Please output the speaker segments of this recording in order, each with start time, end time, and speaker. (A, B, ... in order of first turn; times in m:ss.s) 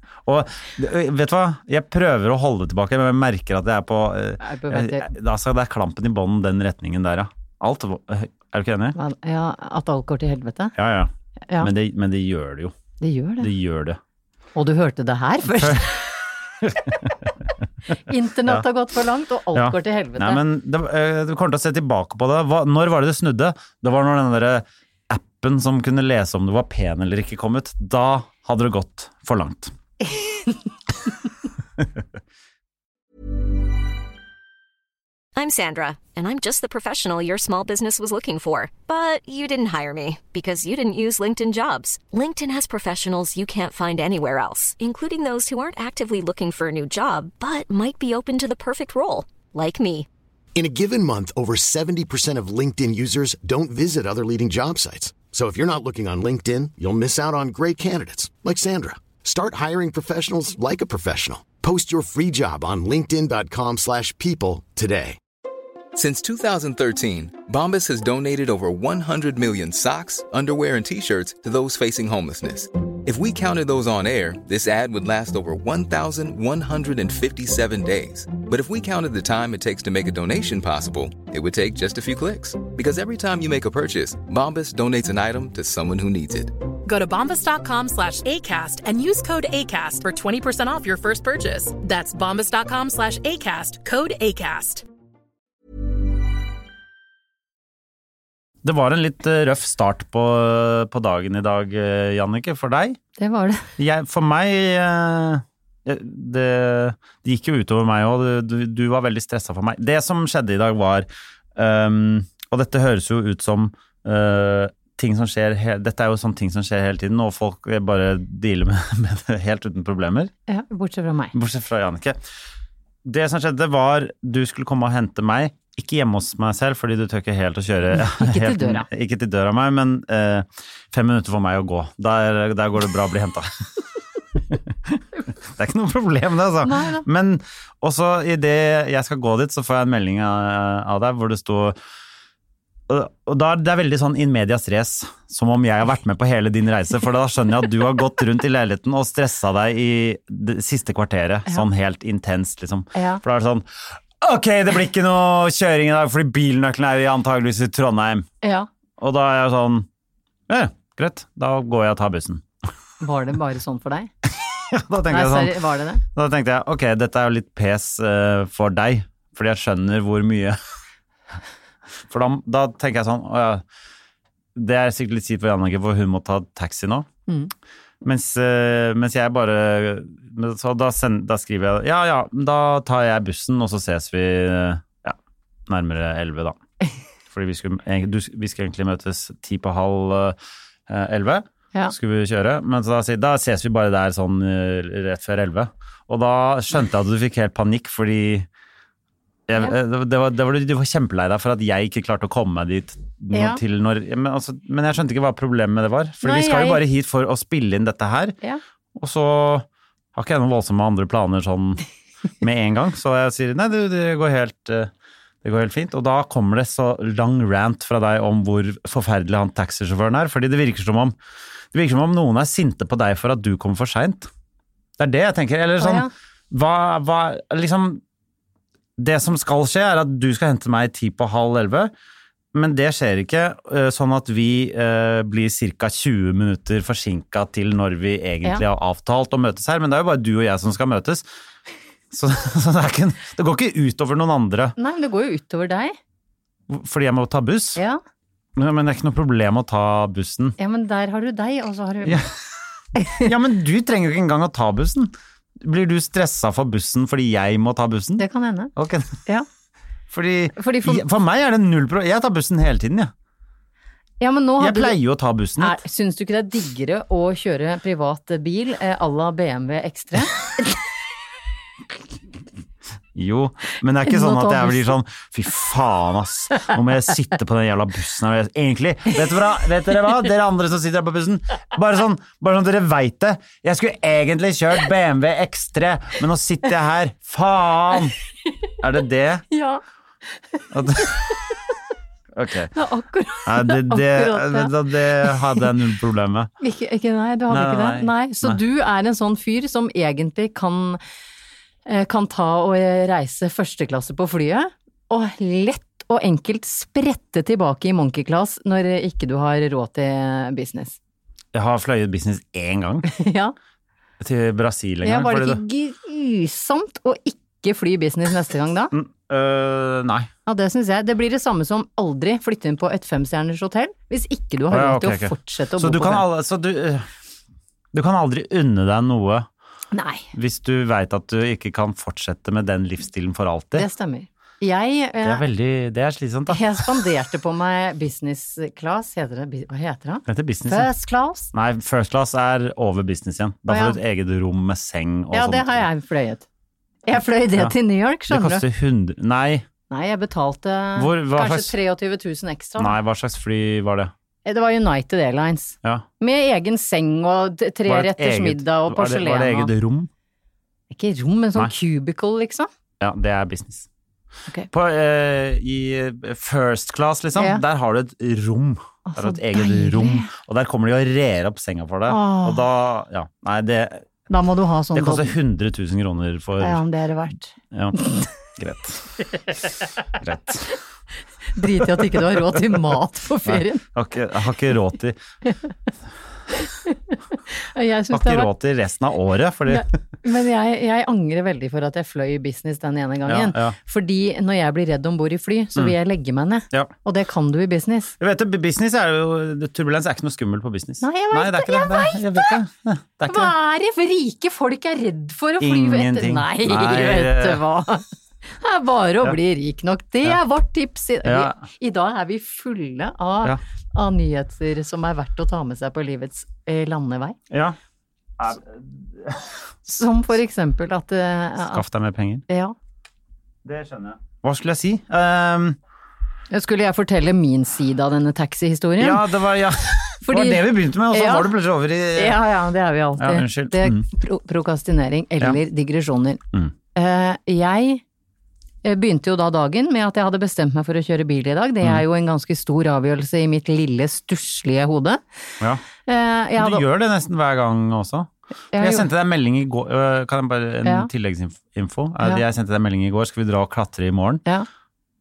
0:00.3-0:09.0 A
0:04.4-0:05.1 B
0:09.0-0:10.8 B
0:10.8-0:12.8 A
0:13.0-0:13.5 B
0:13.4-0:14.0 A
0:14.6-0:16.0 B
0:15.4-0:15.9 A
0:16.6-0:17.3 A
0:17.9-0:20.4 B
0:19.5-0:29.7 A
0:30.1-0:30.6 B
0:35.4-0:50.1 C
0:50.6-1:05.2 D
1:06.0-1:26.5 E
1:26.9-1:34.8 F
1:38.6-1:43.0 A
1:43.2-1:43.7 B
1:43.8-2:00.3 A
2:00.5-2:01.3 B
2:01.3-2:02.2 A
2:03.0-2:13.7 A
2:07.9-2:08.9 B
2:14.4-2:21.8 A
2:16.6-2:17.0 B
2:22.9-2:38.3 A
2:33.0-2:33.2 B
2:38.4-2:38.7 B
2:39.0-2:39.9 A
2:40.5-2:42.4 A
2:43.0-2:44.1 B
2:44.4-2:45.6 A
2:45.1-2:46.0 B
2:46.1-2:50.6 A
2:52.1-2:53.6 A
2:54.6-2:57.1 A
2:58.0-3:06.6 A
3:07.3-3:18.5 A
3:19.5-3:28.4 A
3:23.3-3:23.6 B
3:26.2-3:26.8 B
3:29.0-3:31.8 A
3:32.4-3:34.9 A
3:35.4-3:41.2 A
3:41.7-3:44.3 A
3:45.0-3:48.0 A
3:45.8-3:46.1 B
3:49.0-3:51.9 A
3:52.5-4:01.3 A
4:02.1-4:04.8 A
4:04.8-4:06.0 B
4:06.7-4:07.8 A
4:08.6-4:10.6 A
4:10.6-4:12.2 B
4:12.0-4:12.4 A
4:13.0-4:13.3 B
4:13.0-4:19.2 A
4:18.2-4:18.7 B
4:20.1-4:23.1 A
4:20.6-4:21.0 B
4:24.2-4:25.0 B
4:24.6-4:25.8 A
4:25.6-4:30.8 B
4:33.2-4:48.2 A
4:34.1-4:35.0 B
4:48.8-4:49.5 A
4:49.5-4:49.8 B
4:50.5-4:51.3 B
4:50.7-4:51.4 A
4:52.3-4:52.7 A
4:52.7-4:55.6 B
4:53.4-4:56.5 A
4:56.6-5:01.0 B
4:57.5-4:58.6 A
5:01.9-5:11.0 B
5:11.5-5:13.1 A
5:13.1-5:13.5 B
5:14.2-5:15.6 A
5:15.0-5:18.9 B
5:18.9-5:20.3 A
5:20.5-5:26.3 B
5:24.7-5:27.1 A
5:27.9-5:29.5 A
5:29.9-5:30.3 B
5:30.3-5:33.9 A
5:33.8-5:35.4 B
5:35.2-5:37.0 A
5:36.5-5:41.5 B
5:40.3-5:40.9 A
5:41.5-5:45.9 A
5:43.7-5:44.0 B
5:45.3-5:46.4 B
5:47.1-5:48.6 B
5:48.3-5:49.7 A
5:49.9-5:53.0 B
5:51.0-5:51.8 A
5:52.8-5:54.1 A
5:54.4-5:59.7 B
5:57.9-6:00.1 A
6:00.9-6:02.7 B
6:03.0-6:03.9 A
6:04.7-6:14.0 A
6:07.4-6:07.6 B
6:09.1-6:10.3 B
6:12.1-6:12.7 B
6:14.3-6:15.4 B
6:14.9-6:16.8 A
6:16.6-6:18.2 B
6:17.7-6:18.0 A
6:18.6-6:19.1 A
6:20.2-6:20.8 A
6:21.6-6:23.8 B
6:21.6-6:22.4 A
6:23.4-6:25.2 A
6:25.4-6:25.7 B
6:26.7-6:28.5 B
6:28.1-6:29.9 A
6:29.7-6:38.1 B
6:33.3-6:33.8 A
6:38.2-6:43.5 A
6:41.0-6:42.6 B
6:43.3-6:57.4 B
6:45.6-6:47.6 A
6:51.2-6:51.6 A
6:57.5-6:57.8 A
6:58.4-6:59.6 A
6:59.9-7:01.8 B
7:01.6-7:02.4 A
7:02.5-7:02.8 B
7:03.6-7:05.8 A
7:06.5-7:09.2 B
7:09.0-7:12.4 A
7:10.2-7:11.5 B
7:12.2-7:16.4 B
7:13.2-7:14.1 A
7:17.0-7:18.0 B
7:18.8-7:25.2 B
7:26.1-7:26.8 B
7:26.6-7:34.4 A
7:28.7-7:29.1 B